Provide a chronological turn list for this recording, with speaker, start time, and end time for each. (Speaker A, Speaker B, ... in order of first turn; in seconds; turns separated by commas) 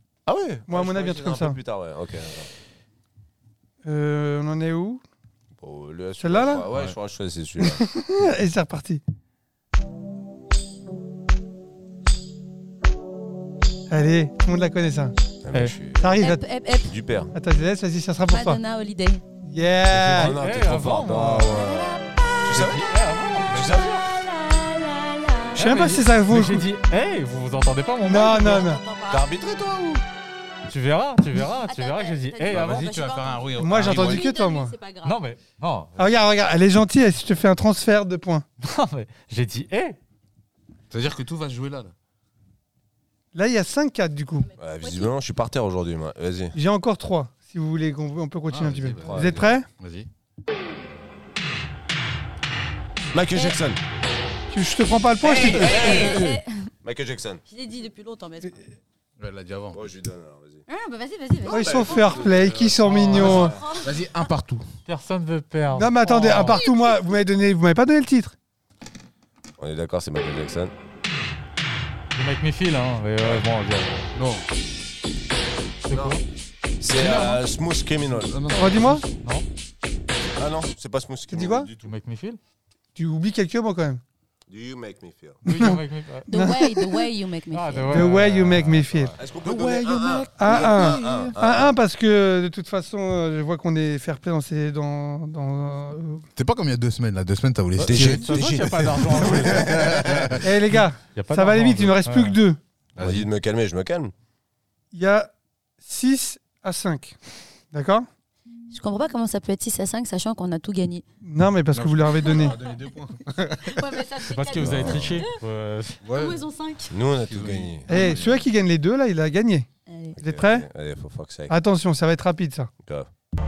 Speaker A: 0.3-2.5, Speaker B: 0.7-1.6, Speaker B: 3.8-5.0, Speaker A: 5.6-8.3, Speaker B: 6.2-6.7, Speaker B: 7.6-9.0, Speaker B: 13.9-15.2, Speaker A: 15.4-16.1, Speaker B: 15.9-16.4, Speaker C: 16.1-17.0, Speaker A: 16.9-17.3, Speaker B: 17.3-18.6, Speaker C: 18.3-19.2, Speaker B: 19.4-20.4, Speaker A: 19.9-22.9, Speaker D: 20.2-21.7, Speaker C: 21.6-22.7, Speaker D: 22.5-24.1, Speaker A: 23.4-24.0, Speaker C: 24.1-25.8, Speaker D: 25.6-28.7, Speaker B: 25.6-26.7, Speaker B: 28.1-28.8, Speaker C: 28.5-29.2, Speaker A: 29.1-30.0, Speaker D: 30.7-32.9, Speaker C: 31.6-35.2, Speaker E: 32.5-34.2, Speaker B: 33.6-34.8, Speaker D: 35.0-36.1, Speaker B: 36.0-38.5, Speaker D: 38.6-40.0, Speaker E: 40.9-41.9, Speaker B: 43.3-44.5, Speaker A: 44.6-46.6, Speaker C: 44.8-45.1, Speaker B: 46.5-49.7, Speaker E: 48.5-50.1, Speaker A: 49.0-49.5, Speaker A: 53.1-53.8, Speaker B: 54.5-56.1, Speaker A: 55.2-56.2, Speaker C: 55.5-56.7, Speaker E: 55.8-56.4, Speaker A: 56.8-57.4, Speaker C: 57.5-58.6, Speaker E: 59.2-59.8, Speaker A: 59.7-60.6, Speaker C: 60.7-62.0, Speaker B: 61.5-63.6, Speaker A: 61.5-63.6, Speaker D: 62.9-63.5, Speaker E: 63.1-64.7, Speaker C: 63.4-63.9, Speaker D: 64.9-66.6, Speaker B: 65.8-68.4, Speaker A: 69.6-70.7, Speaker D: 72.2-74.1, Speaker E: 74.2-74.5, Speaker D: 75.8-76.2, Speaker A: 75.9-76.2, Speaker A: 76.8-78.3, Speaker E: 76.9-77.4, Speaker E: 78.1-79.0, Speaker B: 78.5-79.0, Speaker A: 80.4-81.9, Speaker B: 81.3-81.7, Speaker D: 81.8-82.4, Speaker B: 83.0-84.0, Speaker A: 84.5-85.4, Speaker D: 85.4-86.3, Speaker B: 85.5-87.1, Speaker C: 86.3-88.2, Speaker D: 87.5-88.9, Speaker B: 87.9-89.2, Speaker A: 88.9-91.8, Speaker E: 89.4-91.3, Speaker B: 90.3-96.2, Speaker E: 96.4-98.4, Speaker A: 97.8-100.5, Speaker D: 97.9-100.2, Speaker E: 99.2-100.5, Speaker B: 100.4-102.6, Speaker D: 101.2-102.4, Speaker E: 103.0-103.3, Speaker A: 103.0-104.1, Speaker B: 104.9-107.2, Speaker B: 107.7-108.1, Speaker C: 108.7-111.0, Speaker B: 111.2-112.6, Speaker E: 111.7-113.8, Speaker C: 112.3-112.7, Speaker C: 113.6-115.4, Speaker D: 114.2-116.0, Speaker A: 114.6-115.2, Speaker E: 116.0-116.4, Speaker C: 116.1-117.0, Speaker A: 116.9-117.9, Speaker E: 117.2-118.4, Speaker B: 117.9-119.7, Speaker C: 119.9-120.2, Speaker B: 120.2-120.7, Speaker A: 120.2-121.5, Speaker B: 121.5-122.7, Speaker A: 122.8-123.1